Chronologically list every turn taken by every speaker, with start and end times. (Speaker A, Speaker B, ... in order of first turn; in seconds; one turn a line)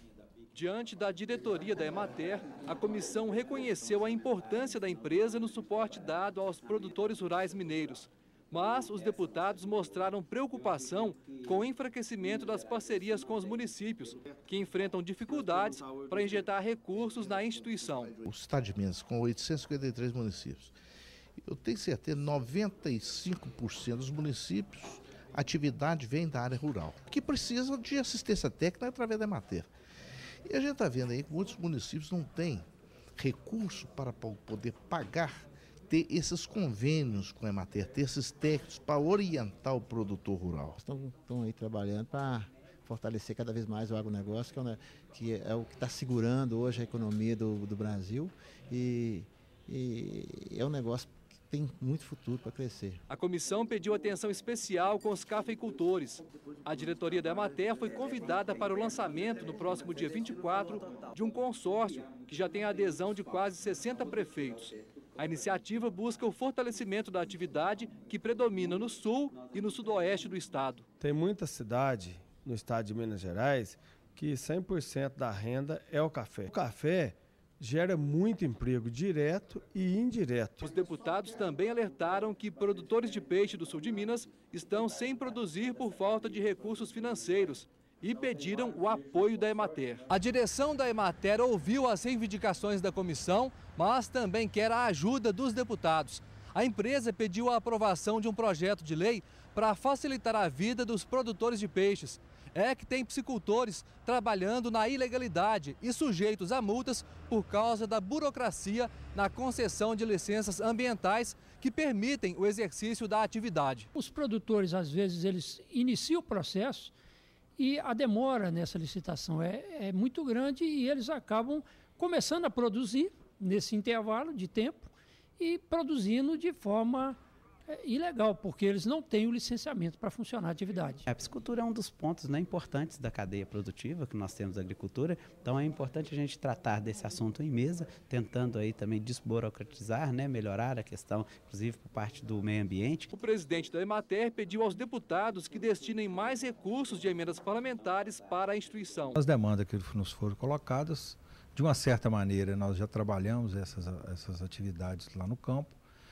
Speaker A: 0.6-18.2
Speaker B: 18.2-20.7
Speaker B: 21.4-29.7
Speaker B: 30.4-32.7
Speaker B: 33.2-40.8
Speaker C: 40.8-53.0
Speaker A: 53.1-70.8
Speaker D: 71.0-80.7
Speaker A: 80.6-113.9
Speaker E: 114.0-116.9
Speaker E: 117.6-127.2
Speaker E: 127.7-131.1
Speaker F: 131.1-143.1
Speaker A: 143.1-149.2
Speaker G: 149.2-155.8